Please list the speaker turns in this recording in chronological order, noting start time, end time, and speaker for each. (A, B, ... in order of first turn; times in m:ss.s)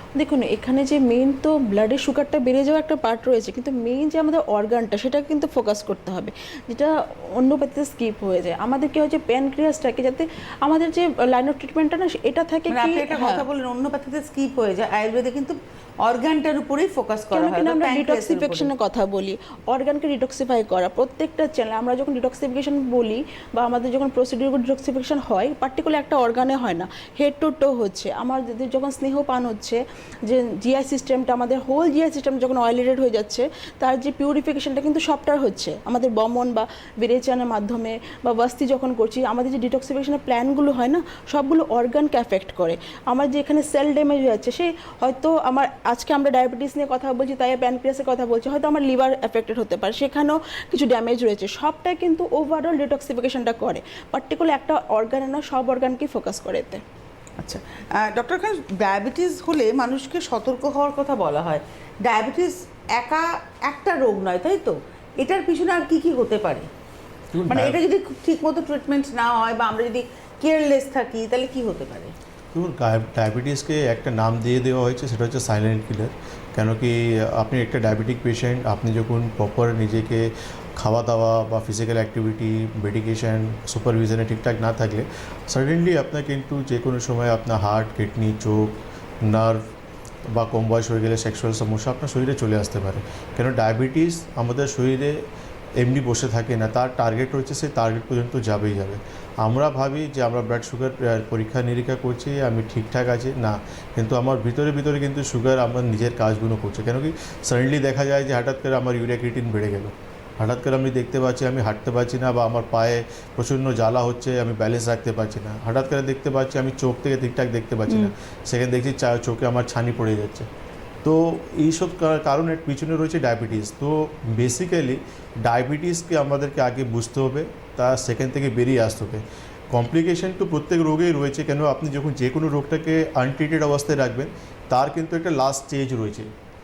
0:00.2-0:13.4 A
0:12.7-0:18.7 B
0:17.3-0:56.8 A
0:57.4-1:06.7 B
1:07.3-1:07.8 C
1:07.5-1:12.1 B
1:12.5-1:29.6 C
1:30.3-1:35.2 C
1:35.8-2:00.5 C
2:01.0-2:16.3 C